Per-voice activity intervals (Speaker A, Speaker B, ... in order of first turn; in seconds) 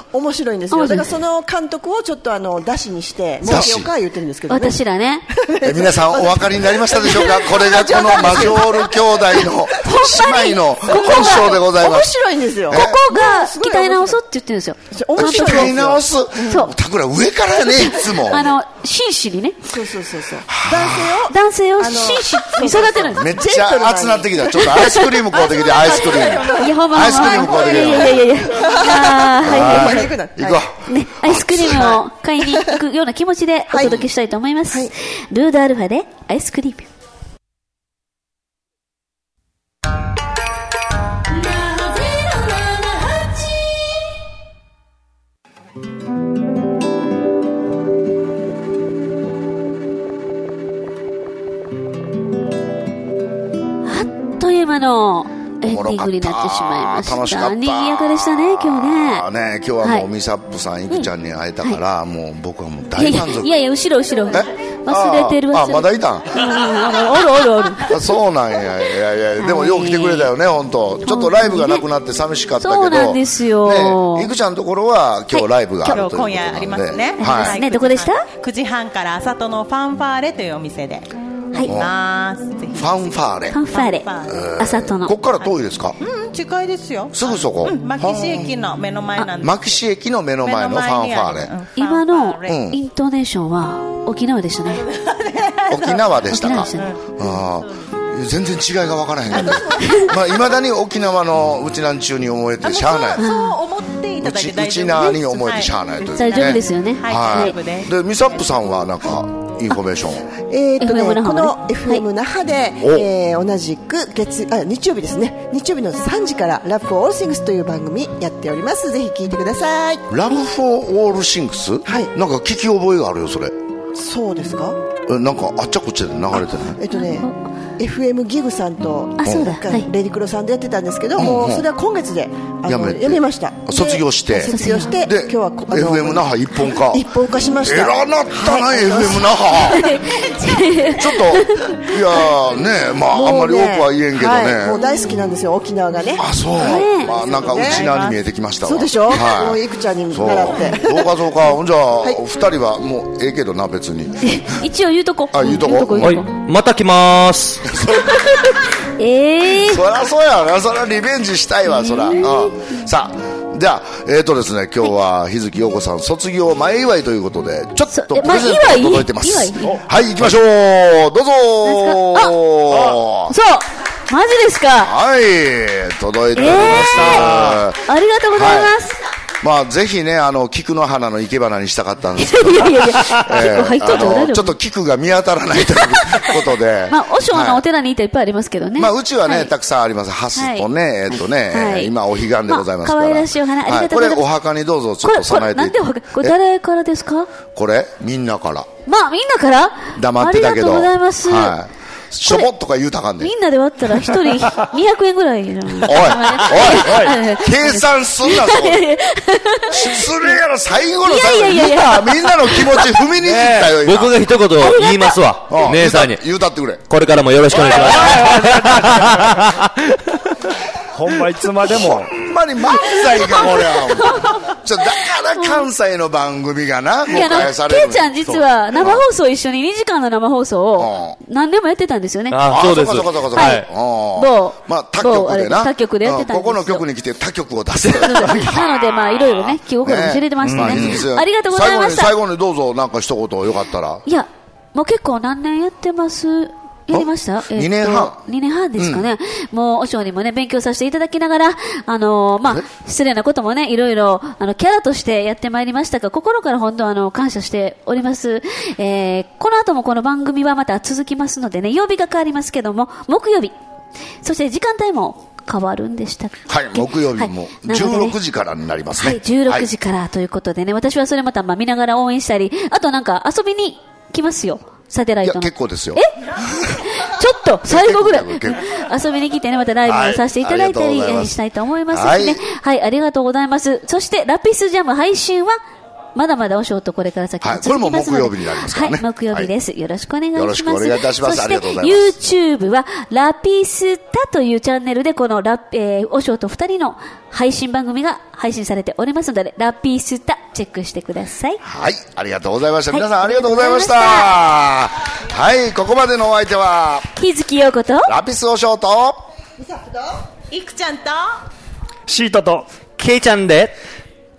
Speaker A: 0.1-4.8, 5.3-9.4, 10.9-14.2, 14.9-16.6, 19.7-30.6, 33.7-34.0, 110.4-120.0, 121.9-122.1, 124.0-124.8, 126.8-139.7, 143.1-146.3, 147.3-147.9, 148.6-151.1
Speaker B: 0.7-1.1, 3.5-3.7, 4.5-5.2, 9.8-11.8, 12.7-15.8, 16.5-16.7, 17.7-19.7, 21.2-23.2, 24.6-30.1, 30.9-36.9, 53.8-59.3, 63.0-68.0, 69.4-70.3, 71.0-71.8, 72.6-74.3, 75.3-76.1, 77.2-78.2, 83.5-85.2, 91.8-94.9, 96.3-97.0, 99.8-100.1, 103.2-103.6, 106.1-107.6, 110.8-112.0, 126.9-127.3, 129.2-129.9, 134.5-135.0, 139.5-142.2, 146.6-147.3, 154.2-156.3, 157.9-159.8, 161.7-162.7, 167.9-169.8, 171.7-172.3, 173.3-175.0, 176.3-179.0, 182.2-184.5, 185.8-186.4, 186.9-189.5, 190.3-190.7, 191.5-191.9, 192.5-194.2, 195.0-197.3, 198.9-201.6, 202.2-202.5, 203.2-210.3, 211.0-213.1, 214.6-215.2, 222.7-224.4, 225.3-225.7, 227.1-232.5, 233.3-236.8, 237.9-242.1, 244.1-263.5, 264.2-268.2, 269.0-276.1, 276.8-285.6, 286.1-301.6, 302.9-304.3, 307.2-308.1
Speaker C: 3.4-3.9, 5.6-12.1, 12.7-13.0, 15.2-18.5, 20.5-21.2, 23.1-28.4, 29.4-32.0, 55.6-63.5, 64.3-66.5, 67.9-77.6, 81.7-81.9, 82.8-83.6, 84.3-86.0, 87.1-88.5, 89.4-91.5, 92.5-92.8, 95.7-103.3, 104.2-110.3, 112.8-113.1, 120.1-123.6, 125.1-126.8, 129.2-129.5, 131.2-131.7, 132.7-140.0, 140.7-144.8, 146.2-154.4, 155.3-156.2, 157.7-158.5, 159.5-173.3, 174.8-178.7, 179.4-187.6, 188.8-196.4, 197.6-198.7, 199.9-203.3, 205.8-208.8, 209.7-214.3, 215.5-216.8, 221.6-229.0, 230.8-231.2, 232.4-244.1, 246.9-248.2, 248.8-249.1, 266.5-269.7, 275.2-276.9, 277.6-278.6, 279.9-281.4, 281.9-282.4, 287.4-289.5, 290.4-292.1, 301.6-307.1, 308.1-309.2
Speaker D: 42.0-42.3, 75.9-84.5, 85.4-89.8, 90.4-92.7, 94.8-97.9, 99.4-99.9, 102.6-107.9, 147.2-148.2, 310.5-311.4
Speaker E: 156.0-157.8, 177.1-177.6, 213.2-216.2, 216.9-220.0, 232.3-233.7, 313.0-313.8
Speaker F: 217.6-219.5, 220.9-222.1, 240.5-240.9, 312.1-312.7